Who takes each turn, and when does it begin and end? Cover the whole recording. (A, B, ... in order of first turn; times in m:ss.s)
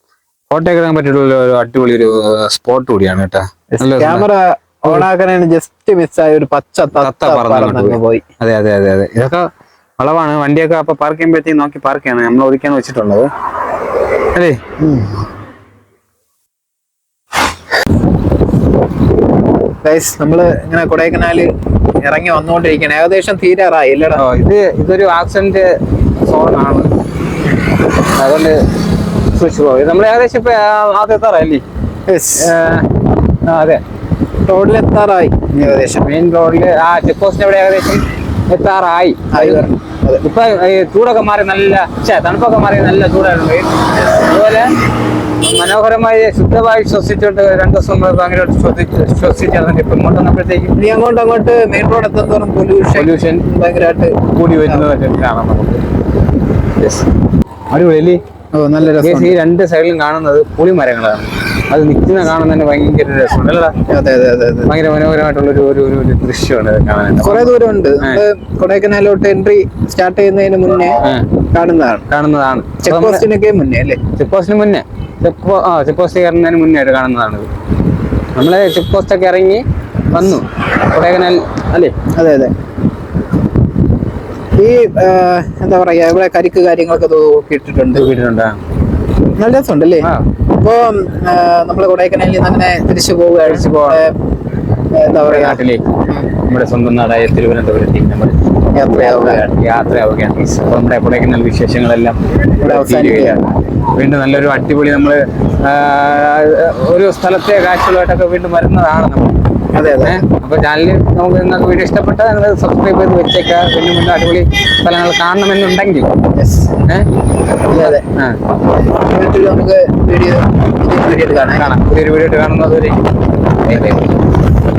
0:00.5-0:04.3 A
0:03.7-0:08.2 B
0:07.0-0:09.5 A
0:10.0-0:13.3 A
0:14.3-0:14.7 A
0:14.8-0:15.1 B
0:19.8-0:21.5 B
0:22.0-0:24.2 B
0:24.2-0:25.7 A
0:26.2-0:26.9 A
0:28.2-0:28.6 A
0:29.4-0:31.6 A
0:32.1-0:32.5 B
0:32.4-0:32.9 A
0:33.5-0:33.8 A
0:34.5-0:36.1 B
0:35.6-0:39.7 A
0:39.3-0:40.2 B
0:40.2-0:44.7 A
0:45.4-0:50.7 A
0:50.8-0:54.2 B
0:52.9-0:53.4 A
0:54.3-0:55.8 A
0:56.8-0:57.1 A
0:57.7-0:58.2 A
0:58.5-0:59.4 B
0:59.0-1:03.7 A
1:03.9-1:04.7 B
1:04.7-1:08.2 A
1:07.2-1:11.0 B
1:11.5-1:12.1 B
1:12.1-1:13.2 A
1:12.8-1:14.0 B
1:14.2-1:17.5 A
1:18.4-1:21.9 A
1:22.2-1:22.5 B
1:24.6-1:28.1 B
1:28.0-1:28.6 A
1:29.4-1:30.1 B
1:30.6-1:34.1 B
1:33.5-1:34.0 A
1:35.0-1:36.3 B
1:35.2-1:35.9 A
1:36.4-1:49.3 A
1:38.8-1:39.5 B
1:42.6-1:43.4 B
1:49.8-1:50.2 B
1:50.0-1:56.1 A
1:56.4-1:56.7 B
1:57.7-1:58.0 B
1:57.7-1:58.4 A
1:58.9-2:01.7 B
2:01.5-2:03.0 A
2:03.6-2:04.1 A
2:03.7-2:04.0 B